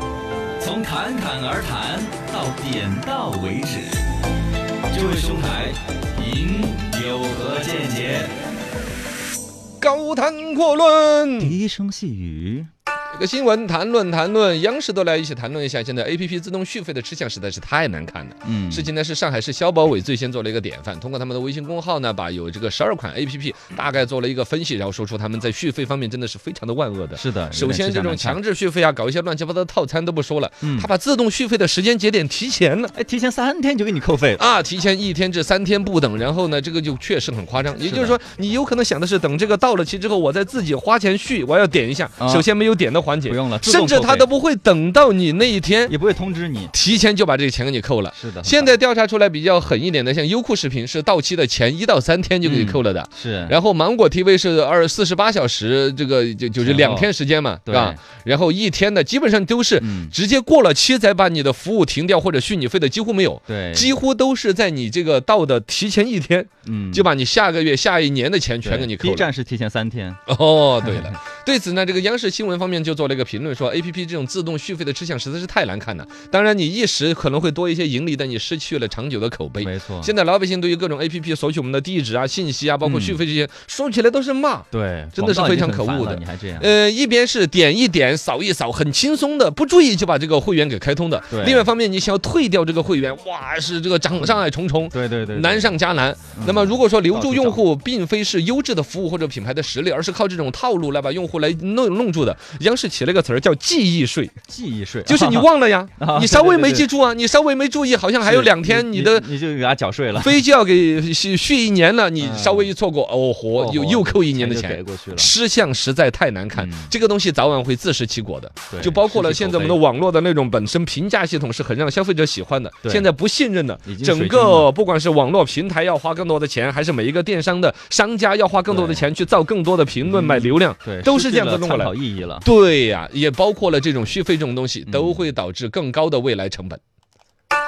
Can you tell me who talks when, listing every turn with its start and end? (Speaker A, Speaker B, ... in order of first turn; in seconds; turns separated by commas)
Speaker A: 0.6-4.0, Speaker A: 4.9-8.3, Speaker B: 9.8-11.6, Speaker A: 11.4-12.7, Speaker B: 13.1-32.9, Speaker A: 18.4-18.9, Speaker A: 27.1-28.4, Speaker A: 30.6-30.9, Speaker A: 32.9-34.4, Speaker B: 34.4-45.9, Speaker A: 37.8-38.1, Speaker A: 42.2-42.5, Speaker A: 43.2-44.3, Speaker A: 45.9-46.7, Speaker B: 46.7-69.3, Speaker A: 48.1-48.7, Speaker A: 52.4-53.5, Speaker A: 56.6-57.1, Speaker A: 57.6-58.0, Speaker A: 59.8-60.1, Speaker A: 63.5-63.9, Speaker A: 66.7-67.1, Speaker A: 68.6-70.2, Speaker B: 70.3-104.3, Speaker A: 79.6-80.1, Speaker A: 82.8-83.2, Speaker A: 84.7-86.7, Speaker A: 91.3-91.7, Speaker A: 94.9-95.8, Speaker A: 96.4-97.6, Speaker A: 104.5-105.5, Speaker B: 105.0-109.3, Speaker A: 106.0-106.8, Speaker A: 108.2-110.4, Speaker B: 110.2-136.8, Speaker A: 112.2-112.7, Speaker A: 113.5-115.3, Speaker A: 116.5-116.9, Speaker A: 118.7-119.8, Speaker A: 123.8-124.7, Speaker A: 128.7-129.0, Speaker A: 130.0-132.4, Speaker A: 134.8-135.2